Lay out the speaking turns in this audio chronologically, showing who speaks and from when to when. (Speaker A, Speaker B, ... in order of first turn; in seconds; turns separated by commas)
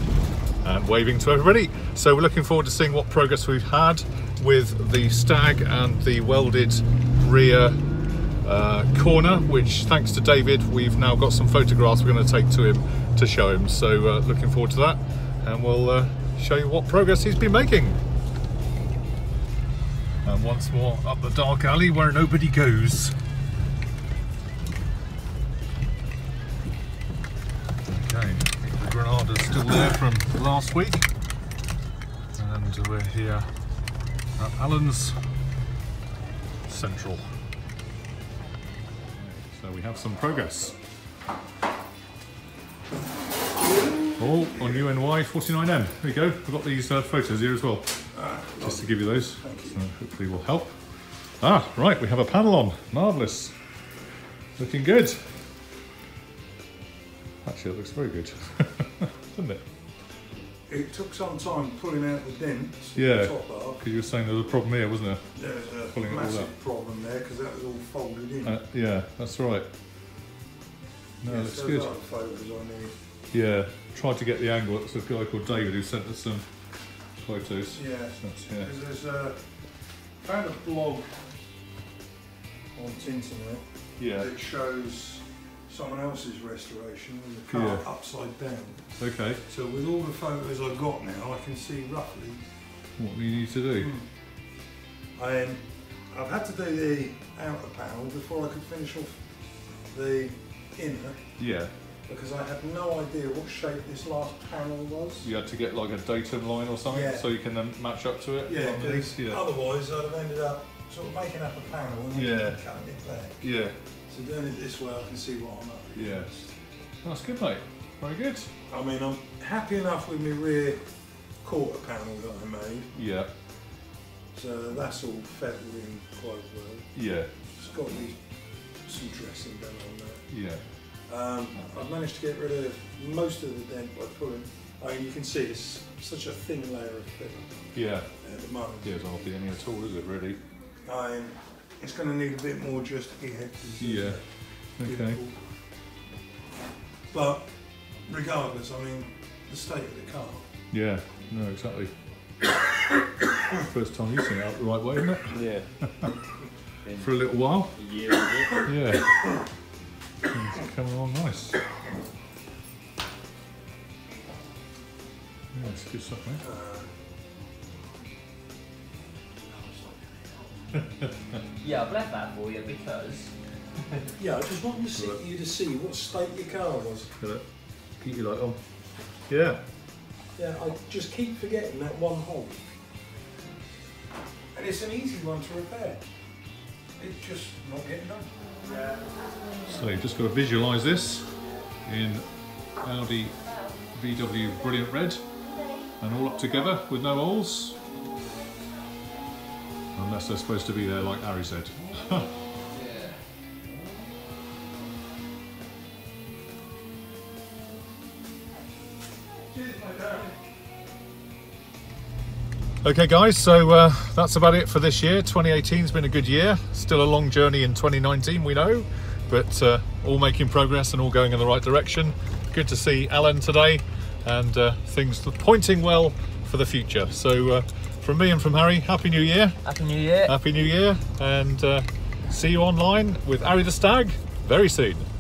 Speaker A: 0.6-7.8, Speaker A: 8.4-18.0, Speaker A: 20.2-23.1, Speaker A: 27.9-31.1, Speaker A: 32.4-33.5, Speaker A: 34.4-35.2, Speaker A: 36.7-37.2, Speaker A: 39.2-40.8, Speaker A: 44.2-48.0, Speaker B: 44.5-44.9, Speaker B: 48.1-49.8, Speaker A: 48.6-50.8, Speaker A: 51.4-53.5, Speaker A: 54.6-55.4, Speaker A: 57.4-59.6, Speaker B: 60.7-63.8, Speaker A: 62.9-66.5, Speaker B: 65.3-68.6, Speaker A: 68.4-69.7, Speaker A: 71.2-71.9, Speaker B: 71.2-73.0, Speaker A: 73.3-76.5, Speaker A: 77.2-78.7, Speaker B: 77.7-79.4, Speaker B: 80.2-81.2, Speaker B: 82.7-88.9, Speaker A: 84.0-84.3, Speaker A: 87.5-87.8, Speaker A: 89.0-89.4, Speaker B: 89.4-92.4, Speaker A: 93.0-93.9, Speaker B: 93.7-94.1, Speaker B: 95.2-99.2, Speaker B: 99.9-101.2, Speaker A: 101.4-101.7, Speaker B: 102.1-105.3, Speaker A: 105.2-109.4, Speaker B: 106.9-107.3, Speaker B: 108.5-113.4, Speaker A: 112.1-112.6, Speaker A: 113.4-113.8, Speaker B: 114.1-116.5, Speaker A: 115.9-116.3, Speaker A: 117.0-118.5, Speaker B: 118.7-120.8, Speaker B: 121.4-123.0, Speaker A: 123.0-123.3, Speaker B: 124.3-126.9, Speaker A: 126.9-127.3, Speaker B: 127.5-128.2, Speaker B: 128.8-130.3, Speaker A: 130.3-130.6, Speaker B: 130.9-139.2, Speaker A: 137.7-138.1, Speaker A: 138.8-140.4, Speaker B: 140.8-145.4, Speaker A: 143.8-144.2, Speaker A: 144.8-145.2, Speaker B: 147.1-147.5, Speaker B: 148.0-150.5, Speaker A: 150.7-151.9, Speaker A: 153.6-156.1, Speaker C: 155.3-155.7, Speaker C: 156.8-158.6, Speaker A: 157.0-157.7, Speaker A: 158.6-159.2, Speaker A: 160.2-161.6, Speaker A: 165.5-166.4, Speaker B: 166.4-166.9, Speaker B: 169.6-170.0, Speaker C: 171.6-173.3, Speaker B: 174.2-177.1, Speaker A: 177.2-177.4, Speaker A: 178.0-178.6, Speaker A: 179.3-179.6, Speaker B: 180.3-182.6, Speaker B: 184.5-186.0, Speaker B: 187.0-189.1, Speaker A: 189.7-191.3, Speaker A: 191.8-192.2, Speaker A: 192.8-193.4, Speaker A: 193.9-195.2, Speaker A: 196.0-197.8, Speaker A: 199.9-202.3, Speaker C: 202.8-203.1, Speaker B: 209.5-210.3, Speaker A: 212.8-229.6, Speaker C: 229.6-230.3, Speaker A: 230.2-235.1